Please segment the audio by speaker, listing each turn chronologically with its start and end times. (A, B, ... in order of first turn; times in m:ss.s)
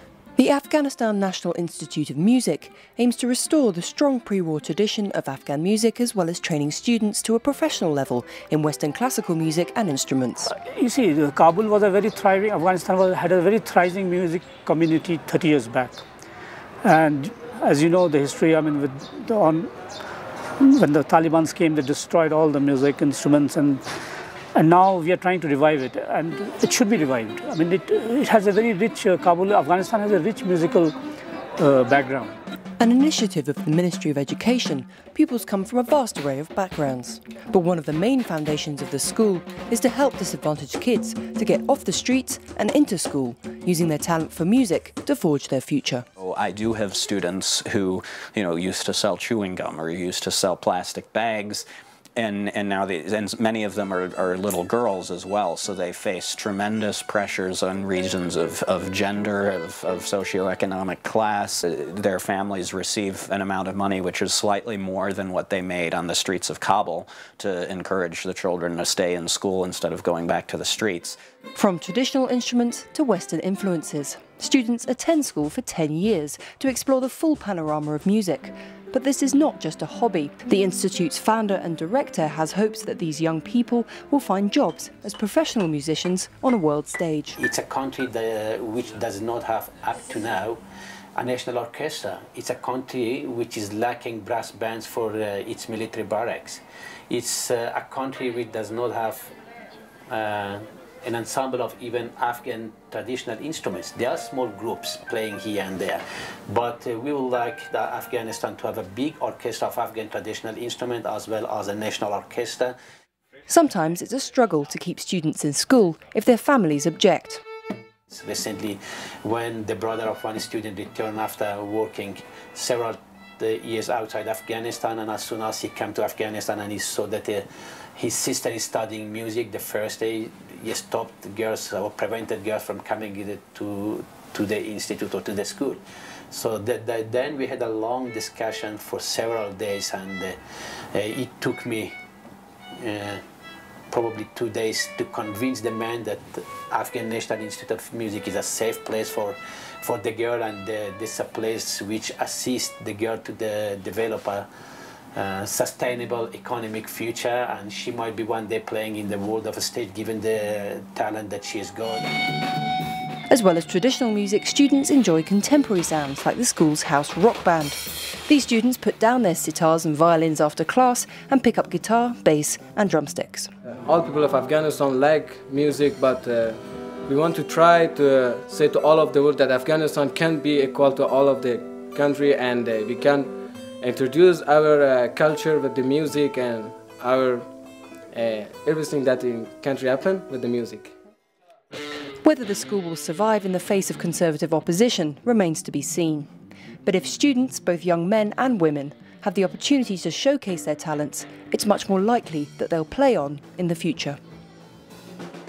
0:00.4-0:10.5 A
0:10.5-0:16.0 B
0:16.8-0:19.7 B
0:20.6-0:23.8 B
0:24.5-0:30.9 B
0:31.6-0:32.4 B
0:32.8-0:46.0 A
0:46.2-0:51.6 C
0:52.2-1:11.2 C
1:11.6-1:27.4 A
1:27.4-1:30.6 D
1:31.2-1:39.3 D
1:40.1-1:52.7 D
1:53.5-1:57.4 A
1:58.1-2:07.4 D
2:08.0-2:20.4 D
2:20.9-2:21.9 D
2:22.8-2:23.2 D
2:23.9-2:34.5 D
2:35.2-2:42.1 D
2:43.3-2:53.5 A
2:53.8-3:07.5 E
3:08.1-3:10.9 E
3:12.2-3:16.3 A
3:16.8-3:24.2 A